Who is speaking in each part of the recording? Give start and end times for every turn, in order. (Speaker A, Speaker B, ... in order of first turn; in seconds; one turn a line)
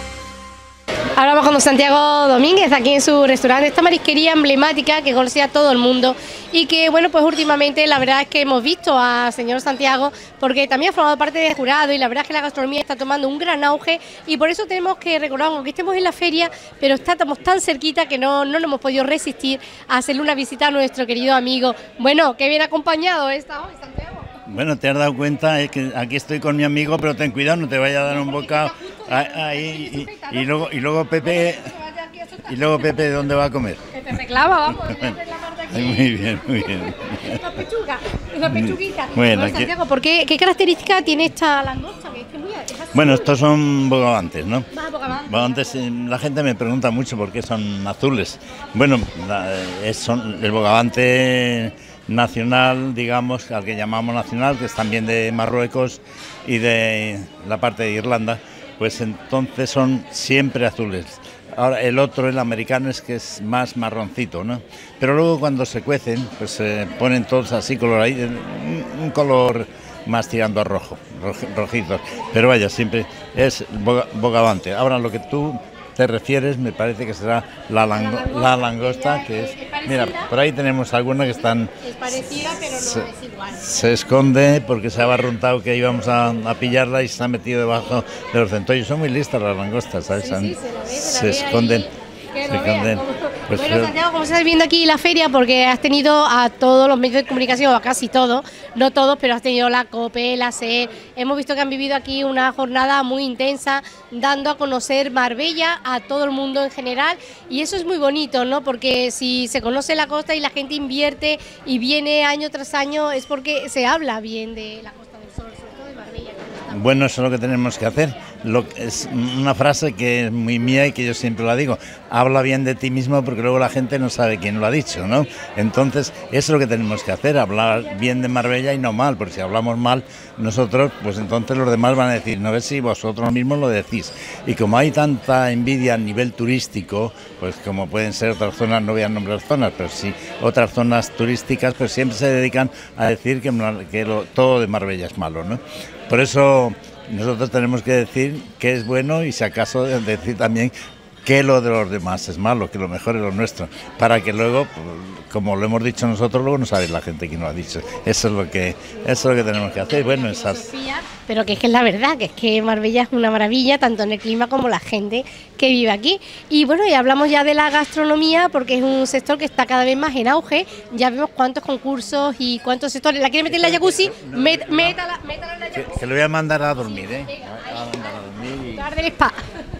Speaker A: 1.1-24.4
Speaker B: 24.4-31.7
Speaker A: 28.1-30.7
Speaker A: 31.2-33.0
Speaker B: 32.5-33.8
Speaker A: 33.9-43.3
Speaker B: 34.8-35.1
Speaker B: 35.7-37.4
Speaker B: 38.5-39.7
Speaker B: 42.9-81.7
Speaker A: 44.7-45.8
Speaker A: 77.9-80.3
Speaker A: 81.8-83.6
Speaker B: 82.7-91.9
Speaker A: 90.1-117.1
Speaker B: 92.5-93.9
Speaker B: 116.7-150.7
Speaker B: 151.2-160.7
Speaker A: 159.7-176.0
Speaker B: 173.4-175.0
Speaker B: 175.7-178.9
Speaker A: 177.1-177.9
Speaker A: 178.7-179.4